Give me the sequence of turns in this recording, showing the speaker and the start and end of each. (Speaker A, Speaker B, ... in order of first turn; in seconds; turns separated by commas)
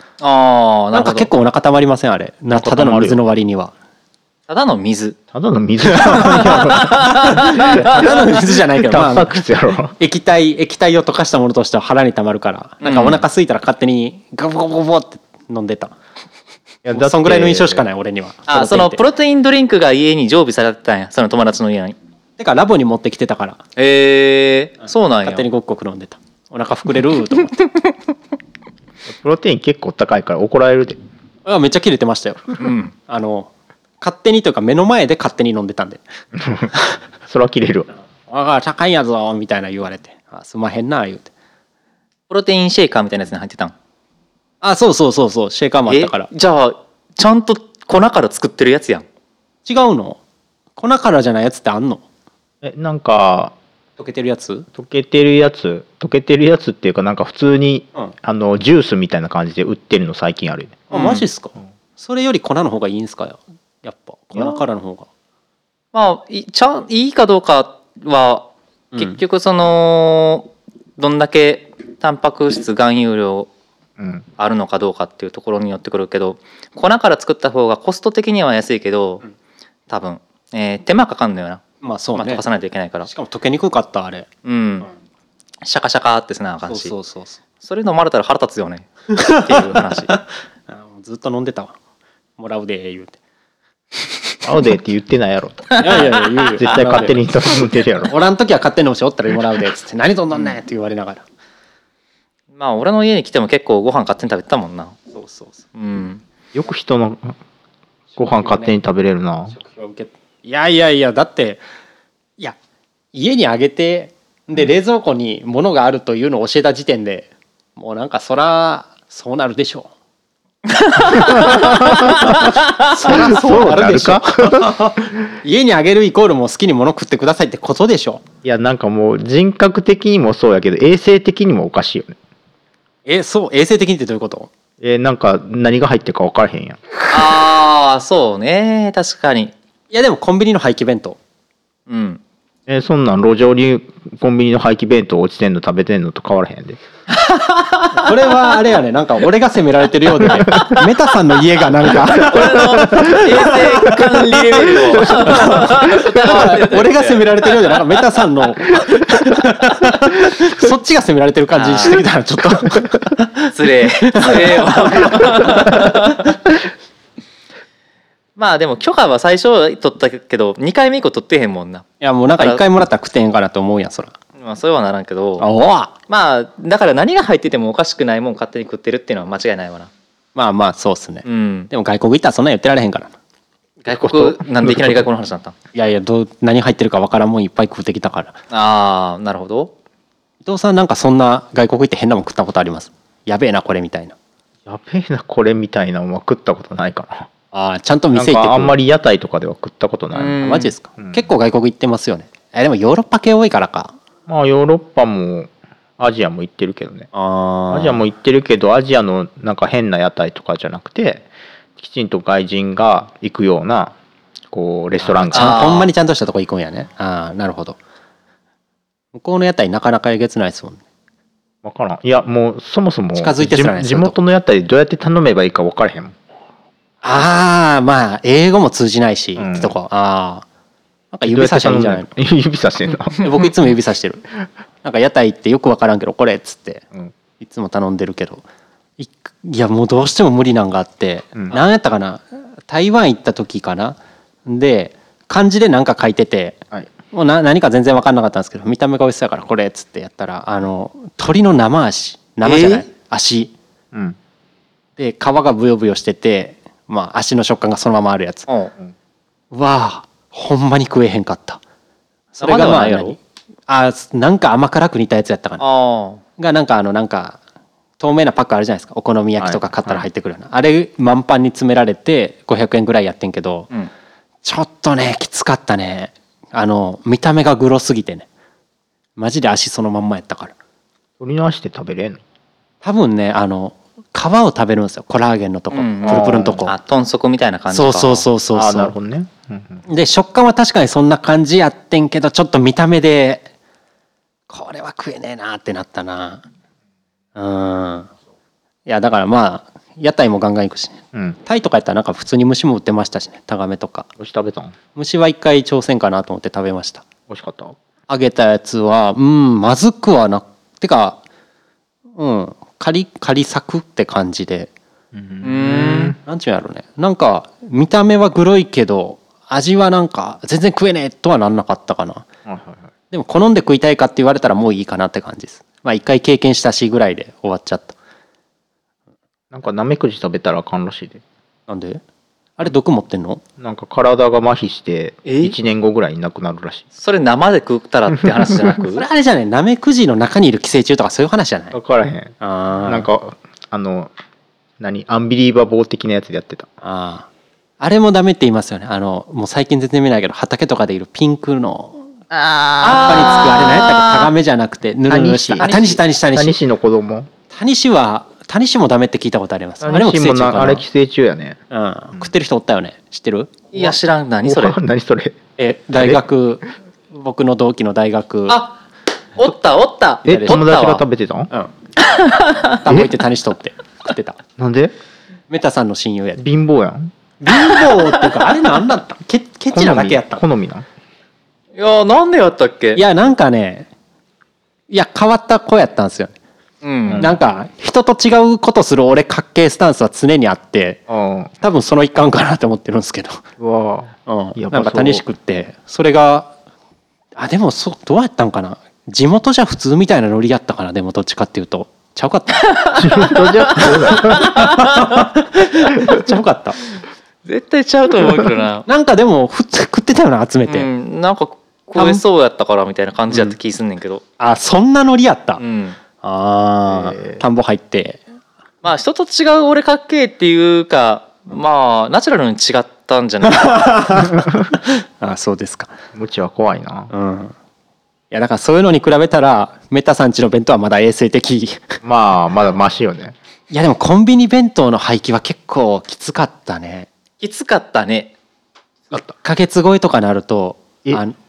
Speaker A: 0.2-1.3, Speaker B: 0.9-3.7, Speaker C: 2.5-3.2, Speaker A: 4.5-5.2, Speaker C: 5.3-9.9, Speaker B: 5.9-9.4, Speaker A: 6.2-8.1, Speaker B: 10.0-15.9, Speaker A: 12.8-13.2, Speaker C: 16.9-17.8, Speaker B: 16.9-19.0, Speaker A: 18.5-22.0, Speaker B: 22.4-23.6, Speaker A: 23.8-25.4, Speaker B: 25.2-27.6, Speaker C: 29.1-31.0, Speaker B: 31.4-36.0, Speaker A: 32.6-32.9, Speaker C: 36.4-36.7, Speaker C: 37.3-37.9, Speaker B: 38.3-41.3, Speaker A: 42.3-43.7, Speaker B: 44.6-46.3, Speaker A: 45.9-49.0, Speaker B: 49.6-50.2, Speaker B: 50.8-52.0, Speaker C: 52.6-53.5, Speaker B: 54.0-54.7, Speaker C: 54.8-60.8, Speaker B: 60.9-65.1, Speaker A: 60.9-61.3, Speaker A: 65.9-73.5, Speaker B: 68.9-69.2, Speaker C: 74.0-74.3, Speaker A: 74.4-79.2, Speaker A: 79.9-81.6, Speaker B: 81.8-82.4, Speaker A: 82.2-83.1, Speaker B: 83.0-84.3, Speaker A: 84.5-84.9, Speaker A: 85.6-86.9, Speaker B: 86.7-87.4, Speaker A: 87.6-90.2, Speaker B: 89.2-91.8, Speaker B: 92.4-93.2, Speaker C: 94.4-96.0, Speaker B: 95.8-97.3, Speaker C: 96.6-98.1, Speaker B: 98.1-101.2, Speaker A: 102.5-105.0, Speaker B: 105.1-105.6, Speaker A: 105.8-106.2, Speaker C: 106.5-107.4, Speaker B: 108.2-108.8, Speaker C: 108.2-109.5, Speaker B: 109.5-111.6, Speaker B: 113.1-119.9, Speaker A: 120.7-122.3, Speaker C: 121.2-125.0, Speaker B: 121.4-128.2, Speaker C: 128.4-132.2, Speaker B: 133.1-134.5, Speaker C: 134.8-136.8, Speaker A: 137.1-139.5, Speaker B: 139.9-141.2, Speaker A: 141.9-142.2, Speaker C: 142.7-146.8, Speaker A: 147.1-147.9, Speaker B: 147.9-165.9, Speaker A: 152.1-157.8, Speaker C: 152.9-153.2, Speaker A: 161.6-162.1, Speaker A: 163.4-166.4, Speaker A: 168.4-172.6, Speaker B: 172.0-174.2, Speaker A: 174.4-175.5, Speaker B: 175.4-175.9, Speaker A: 176.1-179.9, Speaker B: 180.3-183.1, Speaker A: 181.2-181.7, Speaker A: 183.8-185.5, Speaker C: 183.9-185.1, Speaker B: 185.7-188.4, Speaker A: 188.5-189.7, Speaker B: 190.4-194.2, Speaker C: 194.7-197.3, Speaker B: 197.5-198.8, Speaker C: 198.1-200.4, Speaker A: 200.1-200.7, Speaker B: 200.4-203.9, Speaker C: 201.0-201.2, Speaker C: 204.3-207.1, Speaker B: 207.1-208.0, Speaker C: 207.7-213.9, Speaker C: 214.5-215.7, Speaker B: 215.0-217.8, Speaker A: 215.3-215.9, Speaker B: 219.1-220.8, Speaker C: 221.6-226.2, Speaker B: 223.2-224.2, Speaker B: 227.0-230.4, Speaker C: 229.4-229.8, Speaker B: 231.1-232.1, Speaker C: 231.3-233.2, Speaker B: 233.2-234.2, Speaker B: 234.8-236.9, Speaker B: 237.4-238.4, Speaker B: 239.0-253.5, Speaker A: 252.4-252.9, Speaker B: 255.0-258.5, Speaker A: 258.5-258.7, Speaker B: 259.5-261.6, Speaker B: 262.4-265.6, Speaker A: 262.4-263.2, Speaker A: 265.6-266.2, Speaker B: 266.4-267.4, Speaker B: 268.0-273.7, Speaker C: 269.4-270.1, Speaker B: 274.4-278.3, Speaker B: 279.2-280.5, Speaker C: 281.2-282.2, Speaker B: 282.8-286.7, Speaker A: 285.7-288.3, Speaker C: 286.1-286.6, Speaker B: 287.7-288.9, Speaker C: 288.5-289.8, Speaker B: 289.9-293.5, Speaker B: 294.5-296.4, Speaker B: 297.4-298.1, Speaker B: 298.9-304.1, Speaker C: 304.2-304.8, Speaker B: 304.9-307.0, Speaker C: 307.3-307.8, Speaker B: 308.1-311.2, Speaker B: 312.2-314.7, Speaker C: 315.1-316.2, Speaker A: 315.4-316.2, Speaker B: 316.2-322.3, Speaker C: 322.5-322.9, Speaker B: 323.1-328.0, Speaker C: 329.5-331.2, Speaker B: 331.7-332.0, Speaker B: 332.6-333.4, Speaker C: 333.6-336.9, Speaker A: 335.3-335.6, Speaker A: 337.0-339.0, Speaker C: 338.2-338.5, Speaker B: 338.9-341.8, Speaker C: 341.7-344.1, Speaker B: 342.4-343.1, Speaker C: 344.8-346.7, Speaker B: 346.8-347.3, Speaker B: 347.8-352.1, Speaker C: 352.3-353.7, Speaker B: 352.8-356.6, Speaker A: 353.1-354.2, Speaker C: 355.1-357.3, Speaker A: 355.6-356.0, Speaker B: 357.5-360.9, Speaker C: 359.8-361.6, Speaker B: 361.7-363.9, Speaker A: 363.7-364.8, Speaker C: 364.4-365.4, Speaker B: 365.6-368.6, Speaker C: 365.9-366.2, Speaker A: 368.5-368.8, Speaker A: 369.4-371.0, Speaker C: 370.2-371.5, Speaker B: 370.3-370.6, Speaker A: 372.0-372.8, Speaker B: 372.7-374.4, Speaker C: 372.9-373.1, Speaker C: 374.6-374.9, Speaker B: 375.5-376.4, Speaker C: 376.4-377.1, Speaker B: 377.4-380.4, Speaker C: 379.7-380.9, Speaker A: 381.8-383.0, Speaker B: 382.9-383.9, Speaker B: 384.9-386.4, Speaker A: 386.8-387.3, Speaker C: 387.1-387.4, Speaker B: 387.2-391.0, Speaker C: 391.1-391.5, Speaker B: 391.6-393.4, Speaker C: 393.6-395.2, Speaker B: 394.3-396.5, Speaker B: 397.4-402.7, Speaker A: 402.7-405.2, Speaker C: 402.9-404.7, Speaker B: 403.8-406.8, Speaker A: 407.4-408.9, Speaker B: 408.9-410.9, Speaker A: 410.7-414.2, Speaker B: 411.9-412.2, Speaker B: 414.4-415.6, Speaker A: 415.6-416.0, Speaker B: 416.2-418.2, Speaker C: 416.9-417.4, Speaker A: 418.8-424.3, Speaker B: 423.5-425.9, Speaker C: 426.1-427.1, Speaker B: 427.1-427.5, Speaker B: 428.3-432.0, Speaker C: 432.0-433.4, Speaker B: 433.7-437.1, Speaker A: 437.4-438.3, Speaker B: 439.1-441.4